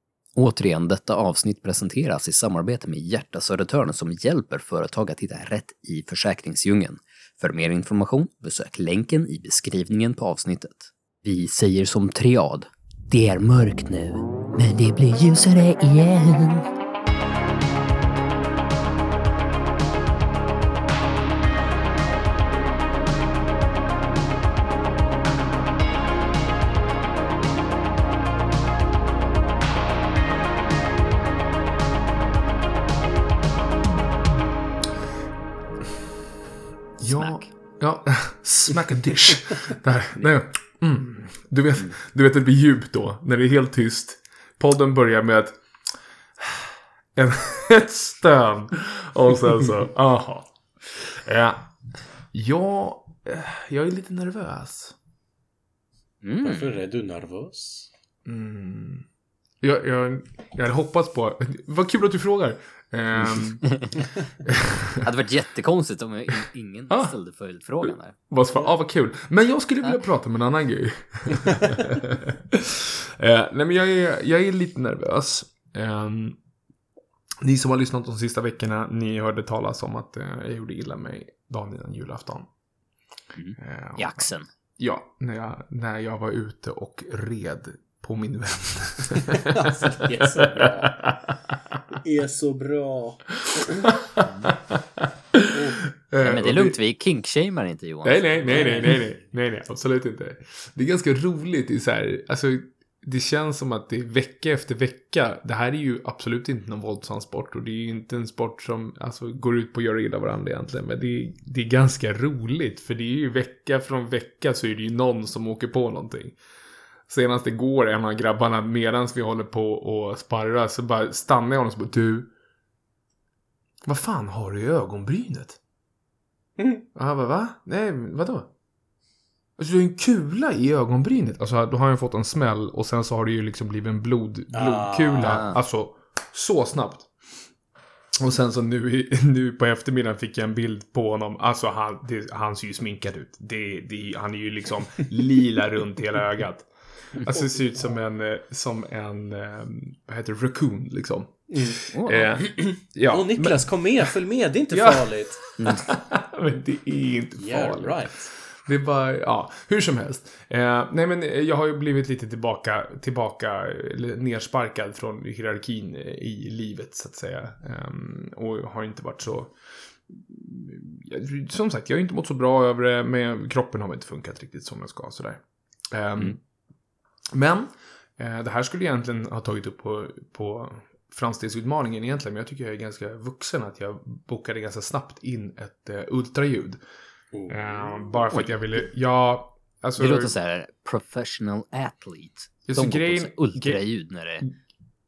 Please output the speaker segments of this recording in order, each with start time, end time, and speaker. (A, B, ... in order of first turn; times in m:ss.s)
0:00.4-0:16.7 A
0:37.0-0:37.5 A
0:37.0-0:45.6 B
0:46.4-0:51.7 B
0:52.3-0:55.0 B
0:56.2-0:56.7 A
0:56.4-0:57.9 C
0:58.2-0:59.1 B
0:59.6-1:03.8 B
1:03.6-1:04.0 A
1:04.4-1:05.1 B
1:05.0-1:08.2 A
1:07.8-1:16.4 B
1:17.4-1:22.5 B
1:23.3-1:24.5 A
1:23.6-1:31.8 B
1:29.4-1:31.1 C
1:31.9-1:33.9 C
1:33.6-1:36.8 B
1:35.5-1:35.8 C
1:36.2-1:38.9 A
1:38.0-1:56.4 B
1:38.5-1:39.0 C
1:57.1-2:02.3 B
2:03.8-2:05.6 B
2:06.6-2:06.9 C
2:07.0-2:08.5 B
2:09.6-2:17.1 B
2:14.5-2:15.5 C
2:15.2-2:15.6 A
2:18.2-2:34.1 B
2:27.2-2:27.7 C
2:31.5-2:31.8 C
2:31.9-2:32.3 A
2:32.4-2:35.5 C
2:34.7-2:49.6 B
2:35.6-2:35.9 A
2:37.4-2:38.3 C
2:50.1-2:56.4 B
2:57.3-3:06.8 B
3:07.3-3:08.2 C
3:07.5-3:10.3 B
3:10.0-3:14.5 A
3:12.7-3:13.8 B